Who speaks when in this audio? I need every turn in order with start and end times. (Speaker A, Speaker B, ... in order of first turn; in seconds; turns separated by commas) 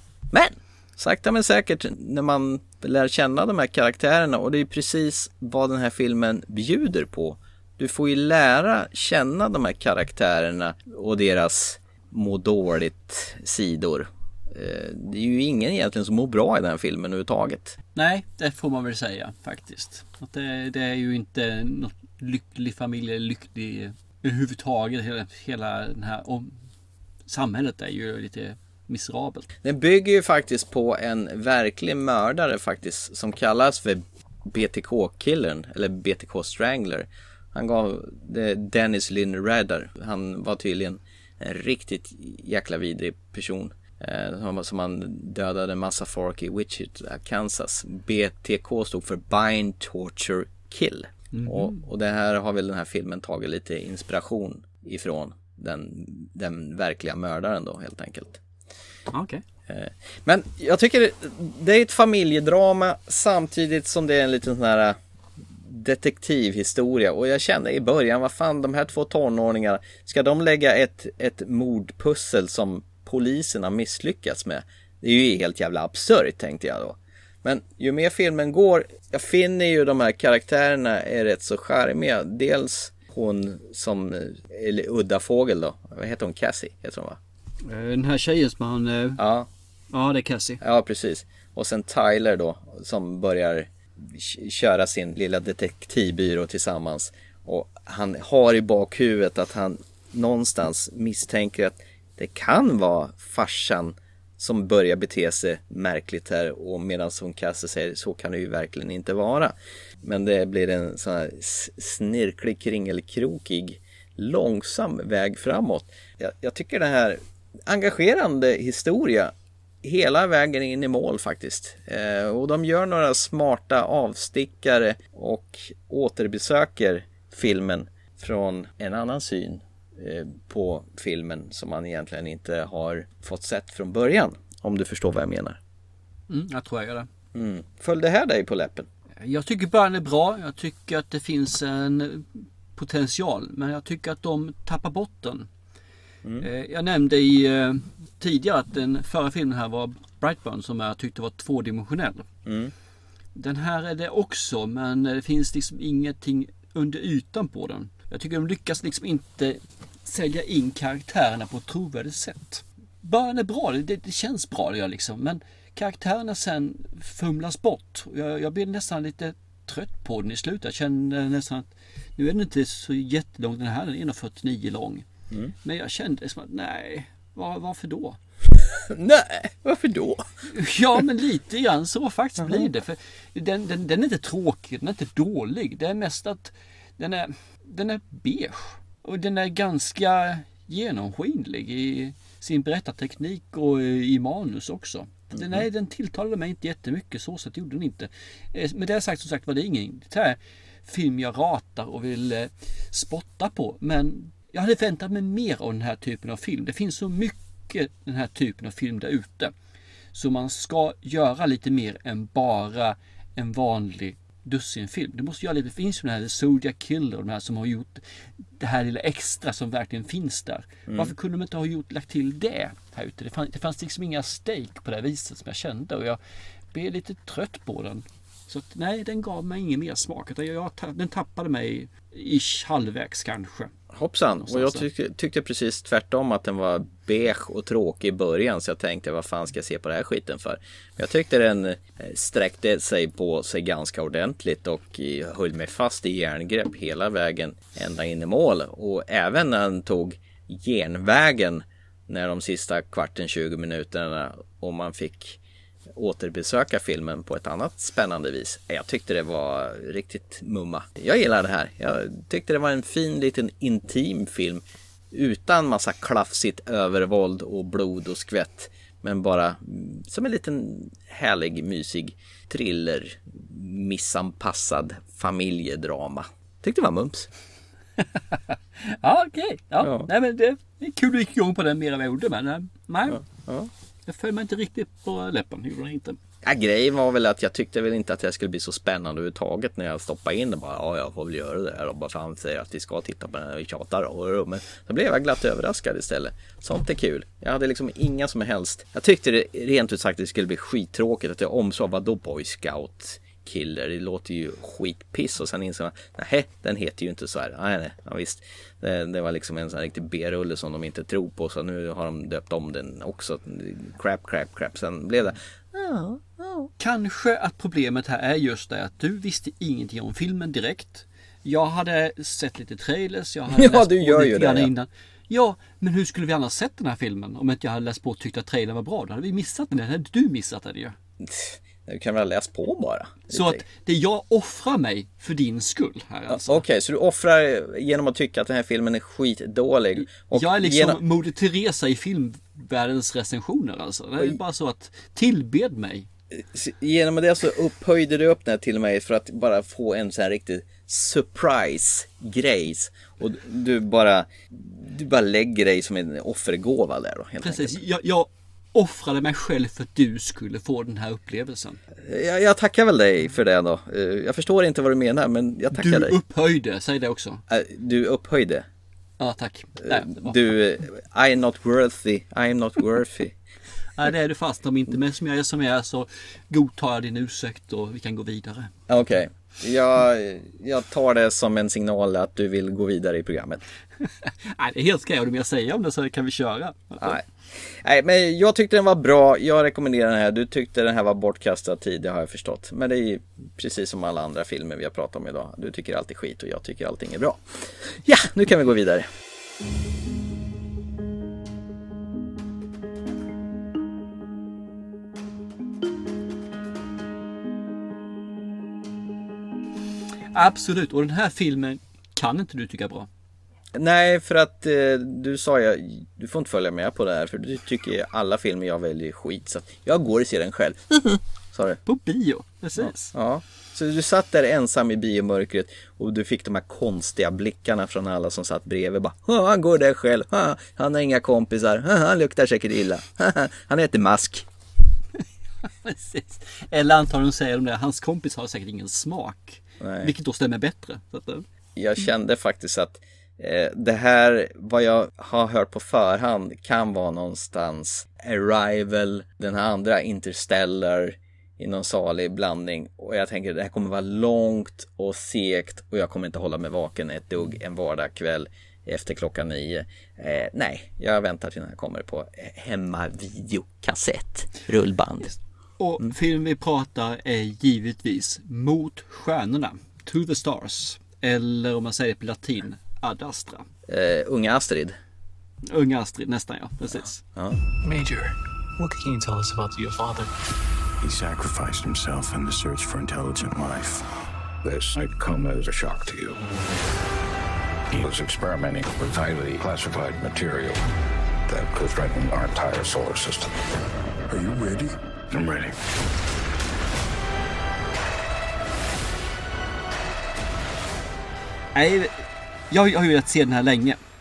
Speaker A: 0.3-17.8, Speaker B: 17.9-26.6, Speaker B: 27.3-29.5, Speaker A: 29.6-58.4, Speaker B: 51.3-51.8, Speaker B: 59.1-59.4, Speaker A: 59.7-65.0, Speaker A: 65.6-87.2, Speaker B: 87.6-89.2, Speaker A: 89.2-89.5, Speaker B: 89.9-90.6, Speaker A: 90.6-135.6, Speaker B: 136.3-137.1, Speaker A: 137.3-138.9, Speaker B: 139.2-145.5, Speaker B: 146.4-152.3, Speaker A: 152.5-152.7, Speaker B: 153.3-175.1, Speaker B: 175.6-178.2, Speaker A: 178.6-180.2, Speaker B: 180.5-209.5, Speaker A: 195.3-195.6, Speaker B: 210.1-218.1, Speaker B: 218.6-226.2, Speaker A: 220.9-221.1, Speaker B: 226.7-233.7, Speaker A: 233.9-255.4, Speaker B: 234.4-234.8, Speaker A: 255.9-277.3, Speaker B: 278.1-283.2, Speaker A: 279.8-280.1, Speaker A: 283.1-283.7, Speaker B: 284.1-286.2, Speaker A: 286.4-316.7, Speaker B: 316.8-331.0, Speaker A: 323.5-324.7, Speaker A: 331.2-333.6, Speaker B: 333.3-336.6, Speaker A: 336.3-341.0, Speaker B: 340.1-346.1, Speaker A: 346.4-357.8, Speaker B: 357.4-361.8, Speaker A: 362.0-366.1, Speaker B: 365.7-367.4, Speaker A: 367.5-368.7, Speaker B: 369.2-370.4, Speaker A: 369.8-373.4, Speaker B: 374.0-378.7, Speaker A: 378.9-383.6, Speaker B: 384.0-387.2, Speaker A: 387.0-399.1, Speaker B: 410.3-413.1, Speaker A: 413.8-421.8, Speaker B: 421.9-423.1, Speaker A: 422.8-434.5, Speaker B: 435.6-441.4, Speaker A: 439.8-440.1, Speaker A: 441.8-465.3, Speaker B: 465.8-473.7, Speaker A: 473.9-474.9, Speaker B: 475.7-477.2, Speaker A: 477.4-477.6, Speaker C: 477.8-480.3, Speaker D: 481.0-484.1, Speaker D: 484.6-486.5, Speaker D: 487.9-490.8, Speaker D: 491.5-493.6, Speaker D: 494.3-495.8, Speaker B: 501.8-504.0